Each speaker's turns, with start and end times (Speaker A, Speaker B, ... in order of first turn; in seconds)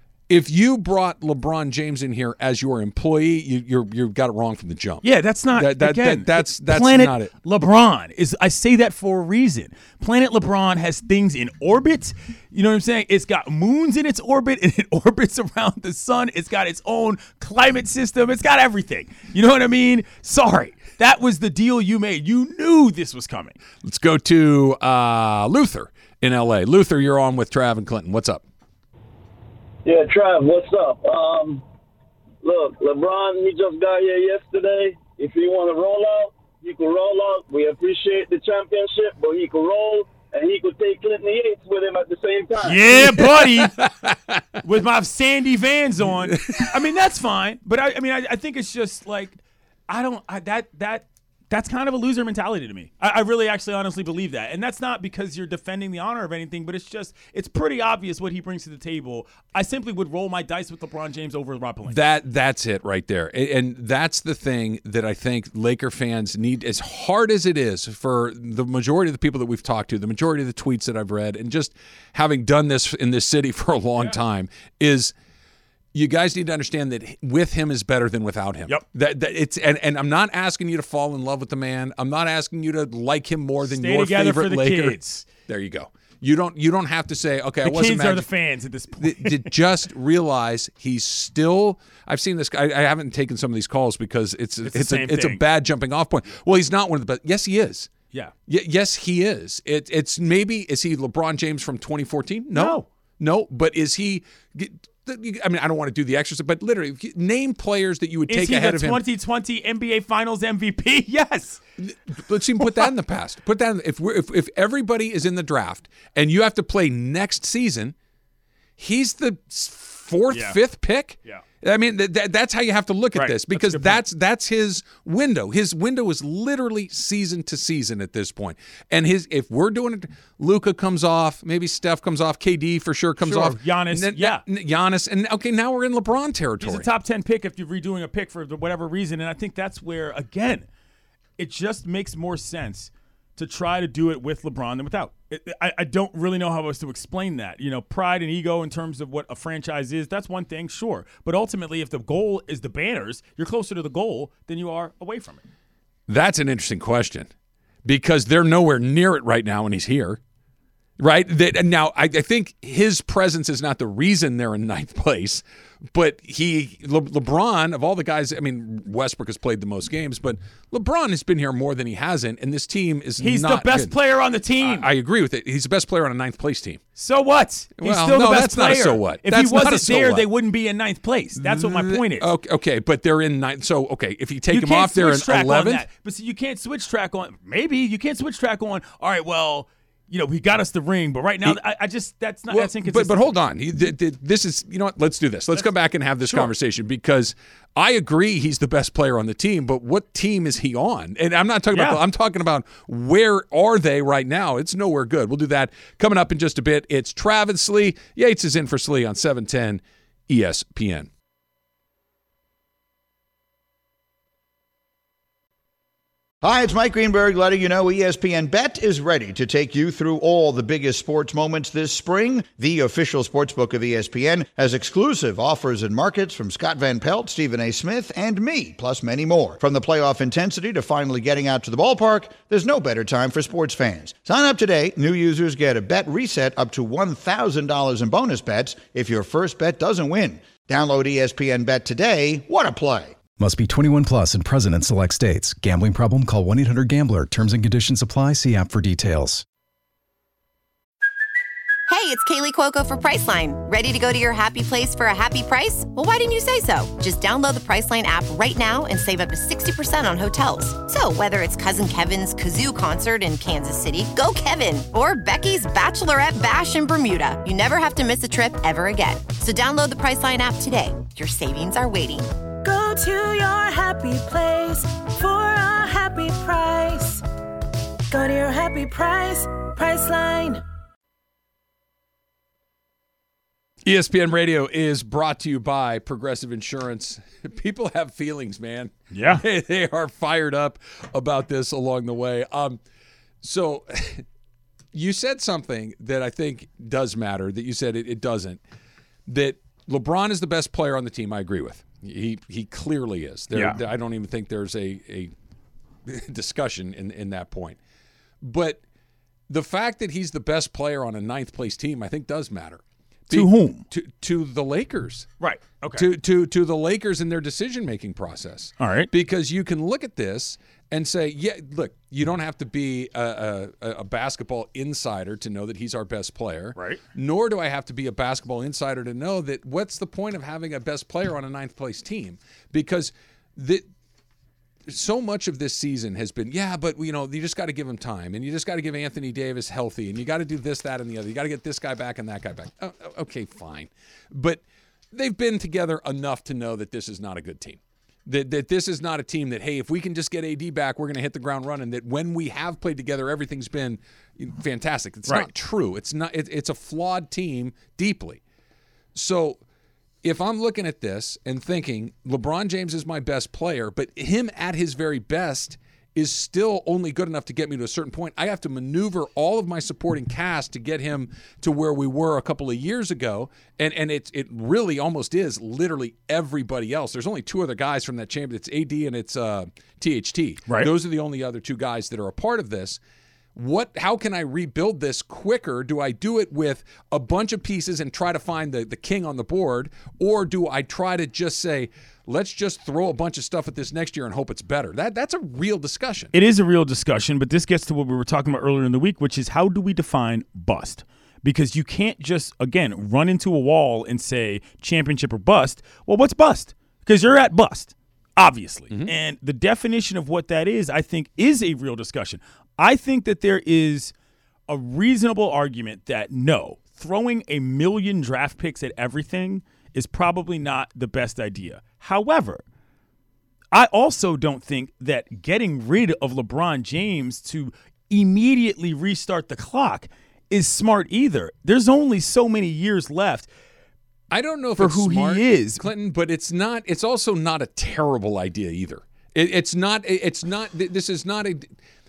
Speaker A: 0.3-7.3, 23.8-28.4, 43.0-44.4, 46.3-46.6, 61.9-75.1, 75.9-88.3, 89.0-97.9, 98.5-109.0, 111.8-117.9, 118.8-136.9, 156.1-157.3, 157.8-160.2, 161.0-173.9, 174.6-176.8, 177.8-180.2, 181.4-185.8, 192.5-211.1, 283.8-292.8, 293.4-294.2, 294.9-298.6, 299.3-305.3, 306.0-307.8, 308.4-308.8, 309.5-315.3, 315.9-333.8, 334.9-358.4, 359.1-359.6, 360.2-383.0, 383.5-396.3, 434.3-441.7
Speaker B: 5.0-23.6, 42.6-43.8, 44.6-49.4, 49.9-62.0, 83.6-85.2, 87.6-89.5, 94.6-95.4, 102.5-102.8, 108.3-111.6, 120.3-120.6, 123.1-124.0, 133.2-134.4, 136.6-140.7, 141.4-155.4, 173.2-174.8, 176.9-182.3, 184.5-193.3, 196.2-196.5, 201.7-202.0, 289.1-289.4, 303.5-303.8, 313.3-313.9, 315.4-316.1, 318.8-319.1, 326.8-327.0, 396.3-414.1, 414.7-422.6, 423.7-433.5, 434.8-435.8
Speaker C: 29.8-31.6, 32.4-42.9
Speaker D: 216.4-243.2
Speaker E: 243.4-249.4
Speaker F: 251.9-272.3
Speaker G: 272.6-277.2, 278.1-280.6